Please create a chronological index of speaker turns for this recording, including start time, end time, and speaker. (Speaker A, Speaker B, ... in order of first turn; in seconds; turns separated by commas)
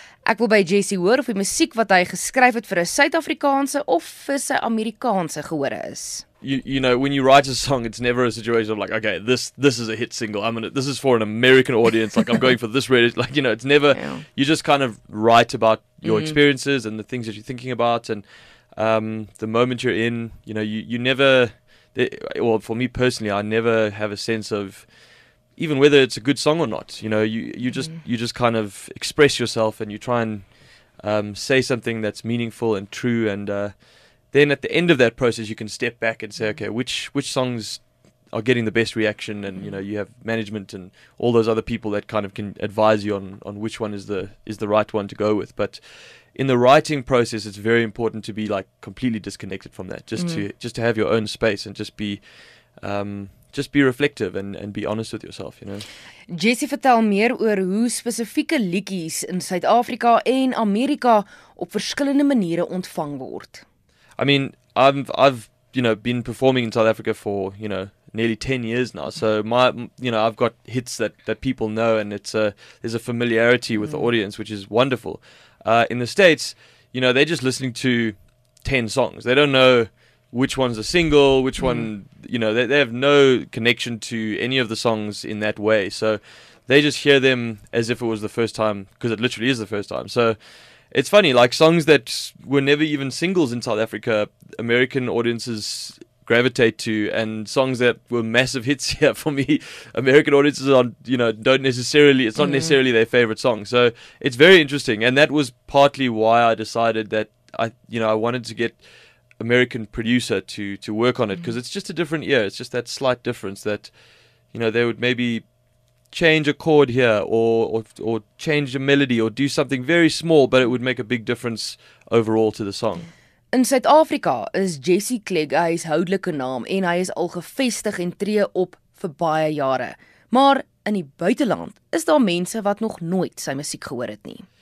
Speaker A: 0.2-6.2, Speaker B: 6.4-55.9, Speaker A: 13.9-14.2, Speaker A: 16.0-16.4, Speaker A: 50.1-50.4, Speaker A: 56.3-63.6, Speaker B: 64.2-114.0, Speaker A: 73.8-74.1, Speaker A: 81.6-81.9, Speaker A: 102.4-102.8, Speaker B: 114.5-115.5, Speaker B: 116.1-123.1, Speaker A: 123.5-134.4